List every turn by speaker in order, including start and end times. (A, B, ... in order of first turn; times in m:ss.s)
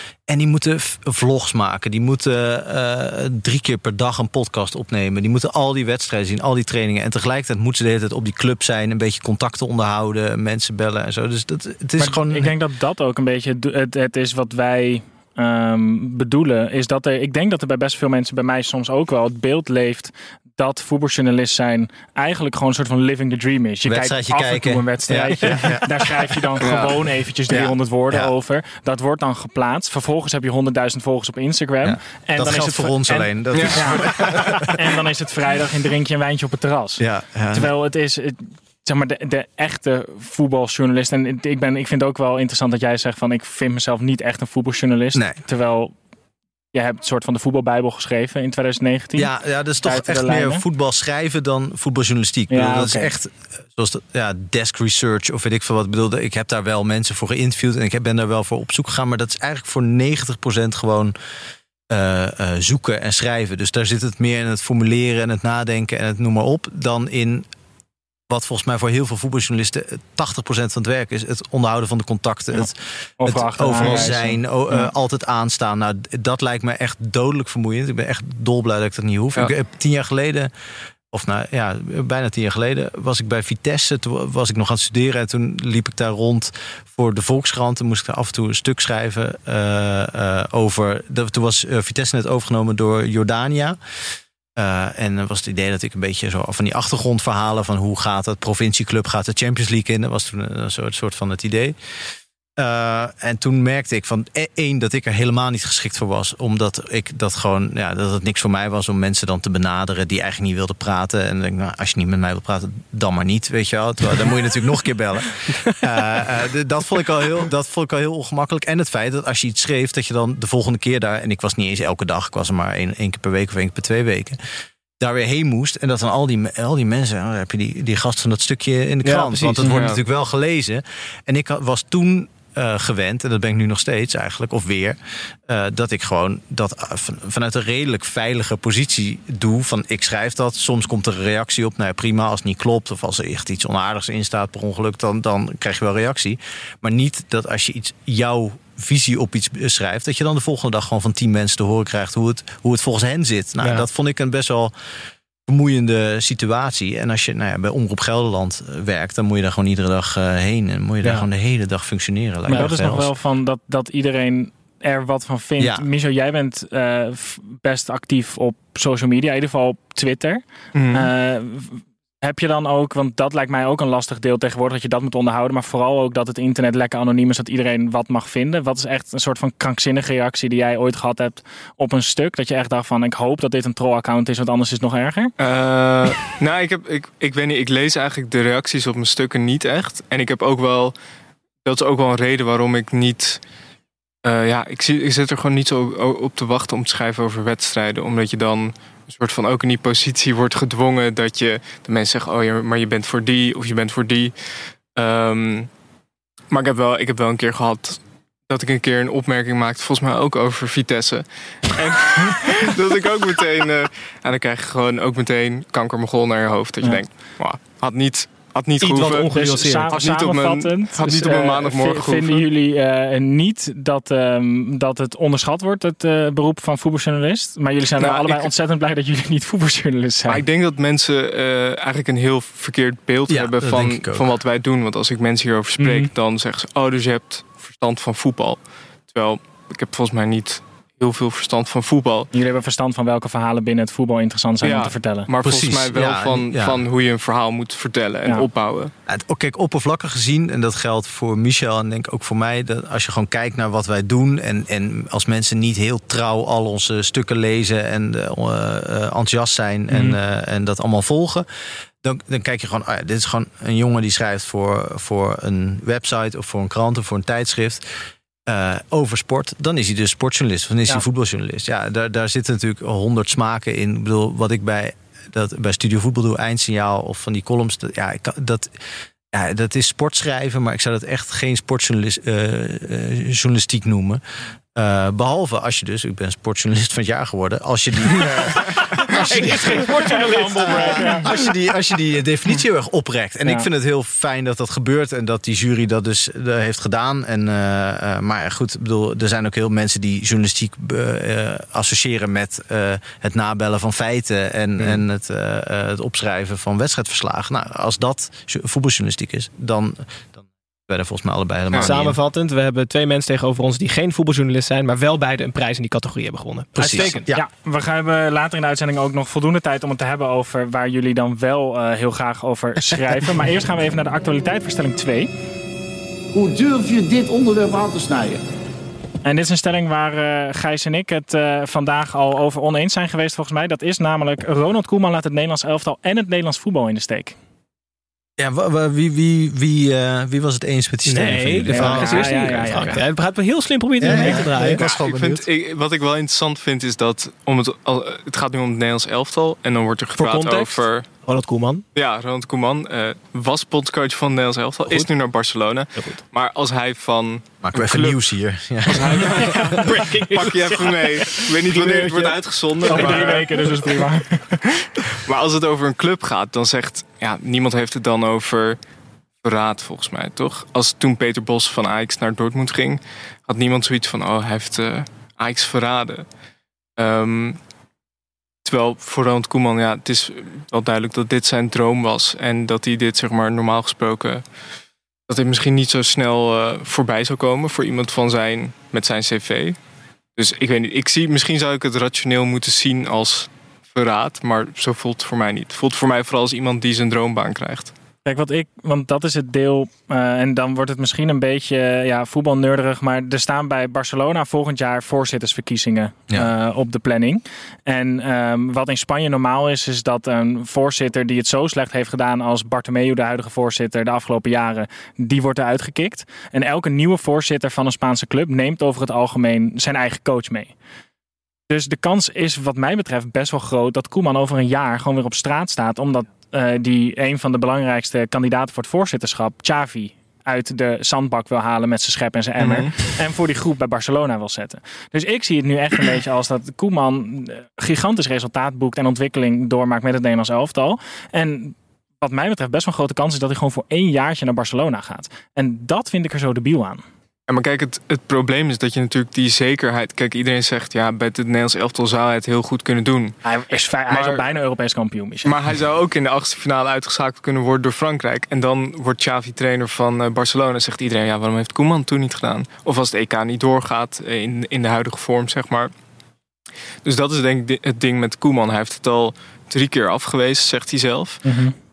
0:00.3-0:12.5 A
0:12.0-0:45.9 B
0:23.8-0:26.4 A
0:26.6-0:26.9 C
0:27.5-0:28.3 A
0:31.8-0:34.7 A
0:33.5-0:34.6 C
0:37.0-0:37.7 A
0:45.1-0:45.4 A
0:46.7-0:49.3 B
0:49.2-1:01.1 A
0:49.8-0:50.6 B
0:52.5-0:53.1 B
1:01.9-1:07.5 A
1:08.3-1:20.5 A
1:13.2-1:14.9 B
1:21.1-1:33.8 A
1:34.6-1:41.8 A
1:42.6-2:04.4 A
2:05.0-2:34.7 A
2:09.0-2:09.9 D
2:35.5-2:43.1 A
2:42.5-3:05.3 B
2:45.6-2:45.9 A
2:50.7-2:51.1 C
3:05.4-3:10.9 C
3:11.6-3:13.4 C
3:14.2-3:24.3 C
3:24.9-3:25.7 C
3:26.5-3:39.3 C
3:38.8-3:40.0 D
3:39.3-3:50.4 B
3:39.9-3:42.5 C
3:48.0-3:48.5 C
3:50.3-4:02.3 C
3:53.3-3:54.2 A
3:55.8-3:56.1 B
4:02.3-4:05.3 B
4:04.6-4:08.9 C
4:05.4-4:06.8 A
4:09.1-4:21.4 A
4:22.0-4:27.8 A
4:28.5-4:38.7 A
4:39.3-4:44.2 A
4:44.7-4:49.9 A
4:49.0-4:51.3 D
4:50.0-4:51.3 B
4:50.5-5:12.2 A
5:11.8-5:17.3 D
5:16.7-5:17.4 A
5:17.3-5:25.3 B
5:26.3-5:28.4 E
5:29.2-5:37.4 B
5:38.4-5:42.8 A
5:41.1-5:44.9 D
5:41.7-5:43.0 B
5:44.0-5:45.5 A
5:44.1-5:44.4 B
5:44.8-5:51.1 C
5:50.2-5:51.8 D
5:51.9-5:58.2 C
5:57.6-5:59.5 A
5:58.9-6:03.7 C
5:59.4-6:03.7 D
6:02.9-6:04.5 B
6:05.1-6:08.8 C
6:09.4-6:16.2 C
6:17.0-6:17.6 C
6:18.6-6:24.4 C
6:25.3-6:29.8 C
6:30.4-6:37.9 C
6:38.2-7:00.7 B
7:01.7-7:27.0 B
7:12.6-7:12.9 C
7:27.5-7:33.4 C
7:33.4-7:35.5 B
7:34.1-7:34.4 C
7:35.4-7:45.9 C
7:47.0-7:51.4 C
7:51.4-7:51.7 B